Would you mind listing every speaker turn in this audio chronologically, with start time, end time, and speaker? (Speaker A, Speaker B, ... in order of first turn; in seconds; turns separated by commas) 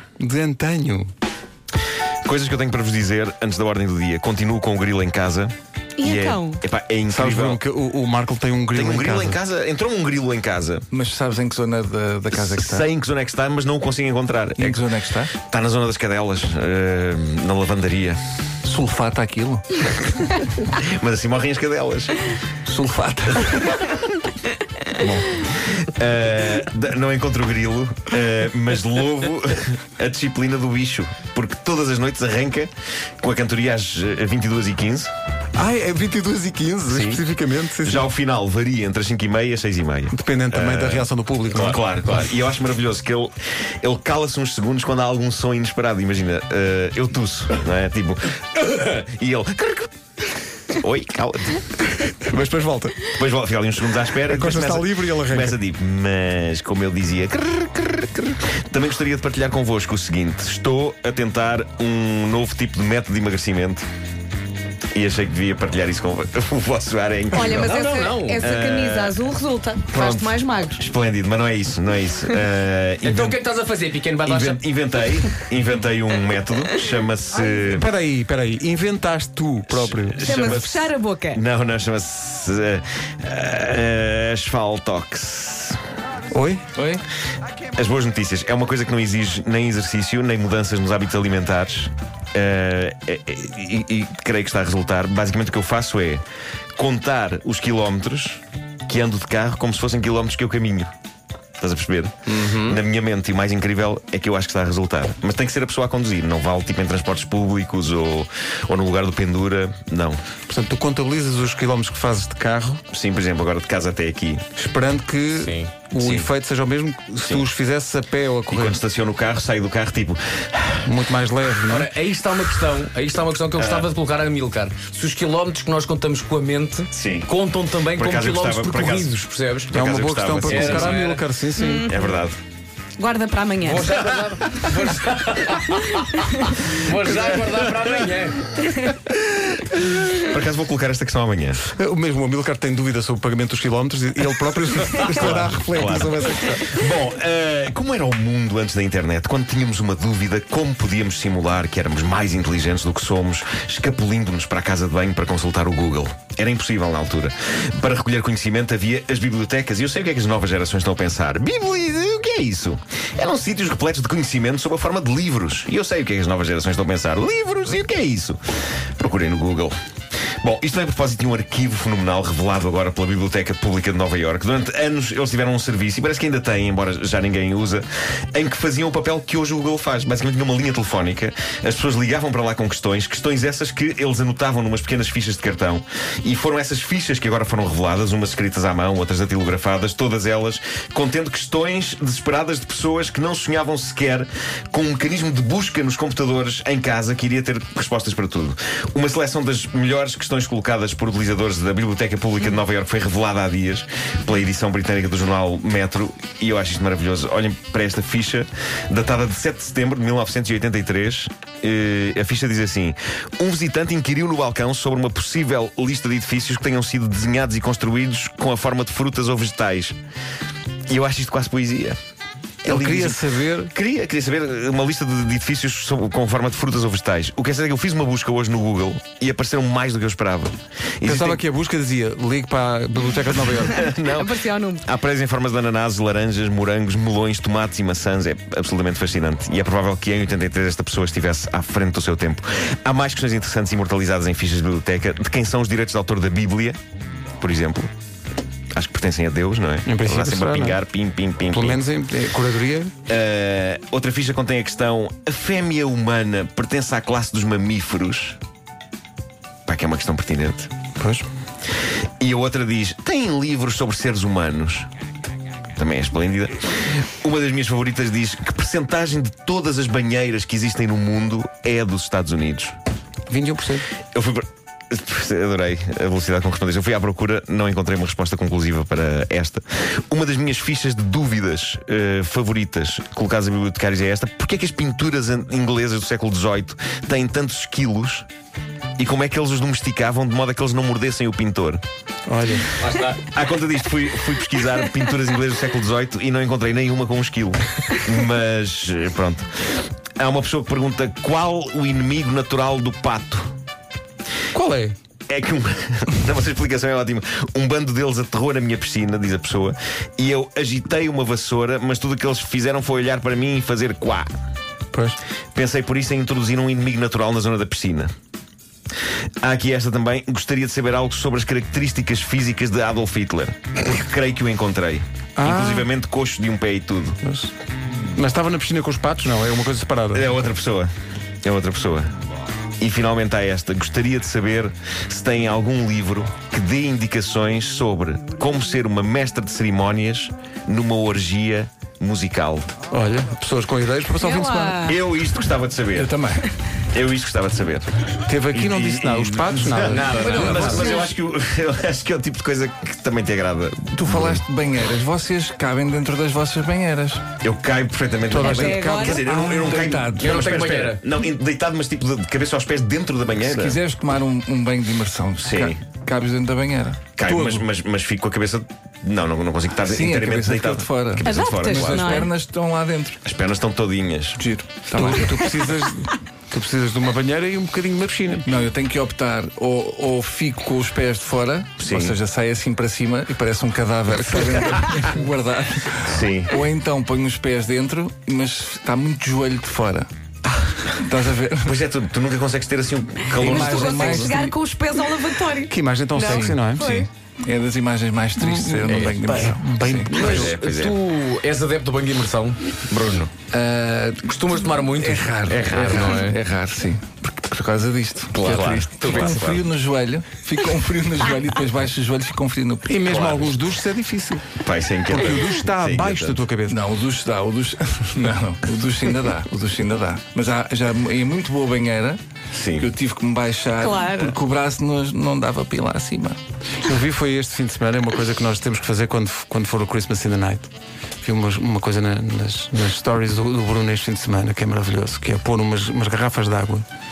Speaker A: 0.2-1.1, Speaker B: 2.2-7.6, Speaker C: 6.0-6.6, Speaker A: 7.1-9.4, Speaker B: 8.7-10.9, Speaker D: 10.9-12.9, Speaker B: 12.3-18.2, Speaker D: 14.6-15.3, Speaker D: 18.6-19.6, Speaker B: 20.6-22.3, Speaker D: 22.7-23.9, Speaker B: 25.0-35.1, Speaker A: 35.5-38.0, Speaker B: 36.9-37.2, Speaker B: 37.8-49.9, Speaker A: 40.1-41.8, Speaker B: 50.7-51.8, Speaker A: 52.1-53.1, Speaker B: 53.1-63.9, Speaker A: 54.2-55.5, Speaker B: 64.9-67.8, Speaker C: 67.3-70.8, Speaker E: 67.5-68.4, Speaker B: 68.4-69.2, Speaker B: 69.9-73.4, Speaker E: 73.0-75.3, Speaker B: 74.2-77.9, Speaker A: 77.5-80.5, Speaker B: 79.7-85.8, Speaker C: 80.2-81.4, Speaker A: 86.3-86.6, Speaker D: 86.8-87.0, Speaker B: 87.8-96.2, Speaker B: 96.8-100.9, Speaker B: 101.6-110.2, Speaker E: 102.3-102.8, Speaker A: 110.5-112.8, Speaker B: 112.9-114.5, Speaker A: 114.6-118.8, Speaker E: 115.3-115.8, Speaker B: 116.0-116.3, Speaker B: 118.5-120.9, Speaker A: 120.8-121.9, Speaker E: 121.7-129.8, Speaker B: 123.6-123.9, Speaker B: 126.9-127.3, Speaker B: 127.9-131.0, Speaker A: 129.7-131.8, Speaker E: 130.4-131.2, Speaker C: 131.5-132.1, Speaker B: 131.8-132.4, Speaker C: 133.0-133.9, Speaker E: 133.6-138.6, Speaker C: 135.7-136.7, Speaker B: 137.1-137.9, Speaker B: 138.7-141.6, Speaker A: 141.7-146.7, Speaker B: 145.0-168.4, Speaker B: 169.0-169.8, Speaker B: 170.4-220.0, Speaker B: 220.9-222.0, Speaker A: 222.7-223.7, Speaker B: 222.7-231.4, Speaker A: 231.1-233.8, Speaker B: 233.6-246.8, Speaker C: 234.1-234.8, Speaker B: 247.4-247.9, Speaker B: 248.7-251.8, Speaker A: 249.9-250.8, Speaker A: 251.5-252.9, Speaker B: 253.1-258.4, Speaker B: 259.7-260.7, Speaker A: 261.0-261.2, Speaker B: 262.2-264.9, Speaker B: 265.8-272.8, Speaker A: 273.3-273.9, Speaker B: 274.1-288.3, Speaker B: 289.0-291.8, Speaker A: 292.3-292.7, Speaker E: 292.8-293.2, Speaker B: 293.2-299.5, Speaker B: 300.2-303.5, Speaker A: 304.5-305.0, Speaker B: 305.3-314.3, Speaker A: 314.9-315.2, Speaker B: 315.5-318.1, Speaker B: 319.4-327.2, Speaker A: 325.4-325.9, Speaker A: 327.2-327.5, Speaker A: 328.1-330.2, Speaker B: 330.1-330.9, Speaker B: 331.4-332.1, Speaker B: 332.8-342.7, Speaker A: 342.9-344.9, Speaker C: 344.2-345.0, Speaker B: 344.9-346.1, Speaker D: 345.9-346.5, Speaker B: 346.9-354.4, Speaker A: 348.3-350.9, Speaker E: 349.8-351.1, Speaker C: 350.2-351.1, Speaker D: 353.9-357.2, Speaker B: 357.4-363.8, Speaker A: 358.3-360.0, Speaker C: 358.4-359.2, Speaker D: 359.2-360.5, Speaker E: 360.2-361.0, Speaker D: 363.4-367.6, Speaker B: 365.4-365.8, Speaker B: 367.2-372.3, Speaker D: 369.8-373.2, Speaker C: 371.2-372.3, Speaker B: 373.2-374.4, Speaker D: 374.4-375.5, Speaker A: 374.9-378.5, Speaker D: 378.4-390.1, Speaker B: 381.8-382.2, Speaker B: 386.1-386.5, Speaker D: 390.9-391.8, Speaker B: 391.6-394.4, Speaker D: 393.4-394.6, Speaker C: 393.4-397.1, Speaker A: 395.7-396.9, Speaker D: 396.1-396.6, Speaker D: 397.4-400.2, Speaker A: 398.4-400.5, Speaker E: 398.9-399.2, Speaker E: 400.2-403.3, Speaker B: 400.2-401.0, Speaker D: 403.5-404.3, Speaker E: 404.2-406.4, Speaker D: 404.9-413.0, Speaker B: 405.5-406.1, Speaker B: 408.3-409.6, Speaker E: 409.0-409.5, Speaker A: 412.9-414.6, Speaker B: 413.1-413.6, Speaker B: 414.6-416.4, Speaker A: 415.1-416.8, Speaker D: 416.7-422.2, Speaker B: 422.5-422.9, Speaker D: 422.8-426.4, Speaker C: 423.8-424.4, Speaker A: 426.8-430.7, Speaker A: 431.2-436.9